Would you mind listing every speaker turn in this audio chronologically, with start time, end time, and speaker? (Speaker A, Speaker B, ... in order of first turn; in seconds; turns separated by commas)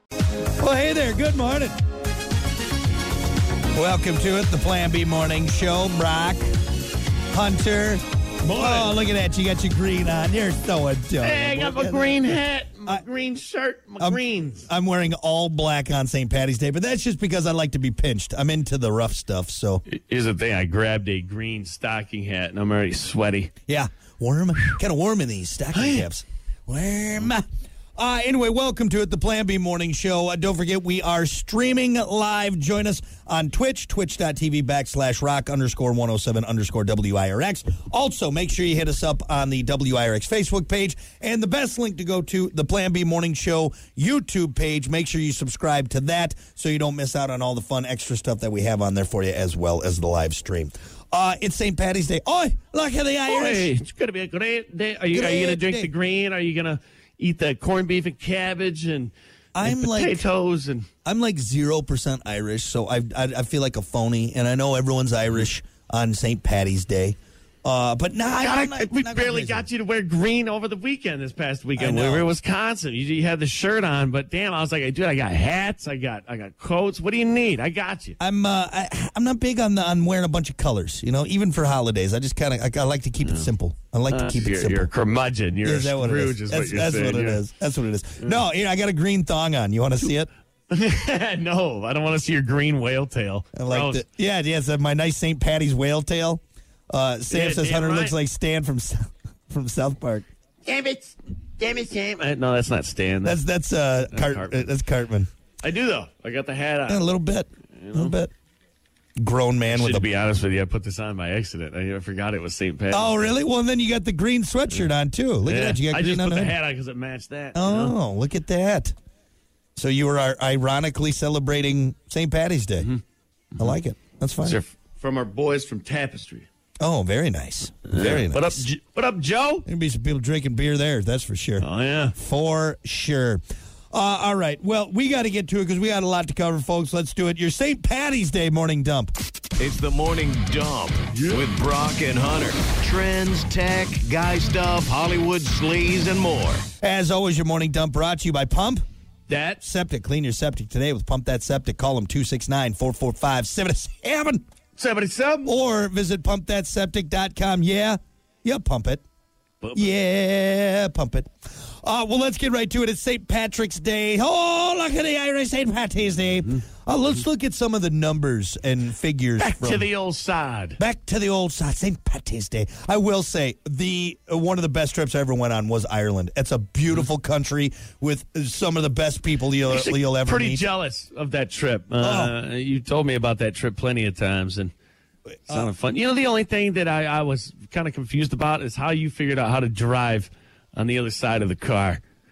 Speaker A: 0.6-1.8, Speaker A: 3.7-6.4, Speaker A: 7.3-13.0, Speaker B: 8.4-8.9, Speaker B: 11.2-14.7, Speaker A: 14.0-19.8, Speaker B: 19.9-23.5, Speaker A: 23.7-27.4, Speaker B: 25.7-26.1, Speaker A: 28.0-53.7, Speaker B: 53.3-60.9, Speaker A: 55.1-55.9, Speaker A: 59.5-60.2, Speaker A: 61.0-69.7, Speaker B: 68.3-78.2, Speaker A: 71.8-72.3, Speaker A: 78.2-84.9, Speaker B: 83.2-83.5, Speaker B: 84.1-87.4, Speaker A: 85.6-90.3, Speaker B: 90.7-94.0, Speaker A: 93.5-100.3, Speaker B: 97.3-98.2, Speaker B: 100.6-103.4, Speaker A: 103.2-105.3, Speaker B: 104.1-104.7, Speaker B: 105.6-107.0, Speaker A: 106.9-108.3, Speaker B: 107.8-108.2, Speaker A: 109.2-110.1, Speaker B: 109.7-113.3, Speaker A: 112.9-116.6, Speaker B: 115.4-117.9, Speaker A: 117.5-118.9, Speaker A: 119.8-122.9, Speaker A: 123.6-124.6, Speaker B: 124.4-126.5, Speaker A: 126.8-128.7, Speaker B: 127.9-129.7, Speaker A: 129.7-139.1, Speaker B: 131.6-132.1, Speaker C: 139.6-146.7, Speaker B: 141.1-141.4, Speaker A: 146.8-148.8, Speaker B: 149.3-149.6, Speaker A: 149.6-154.4, Speaker B: 154.8-155.5, Speaker A: 155.4-159.0, Speaker B: 159.6-159.9, Speaker A: 159.7-169.9, Speaker B: 169.4-170.8, Speaker A: 170.8-180.7, Speaker B: 179.7-184.7, Speaker A: 182.0-182.3, Speaker B: 185.5-192.0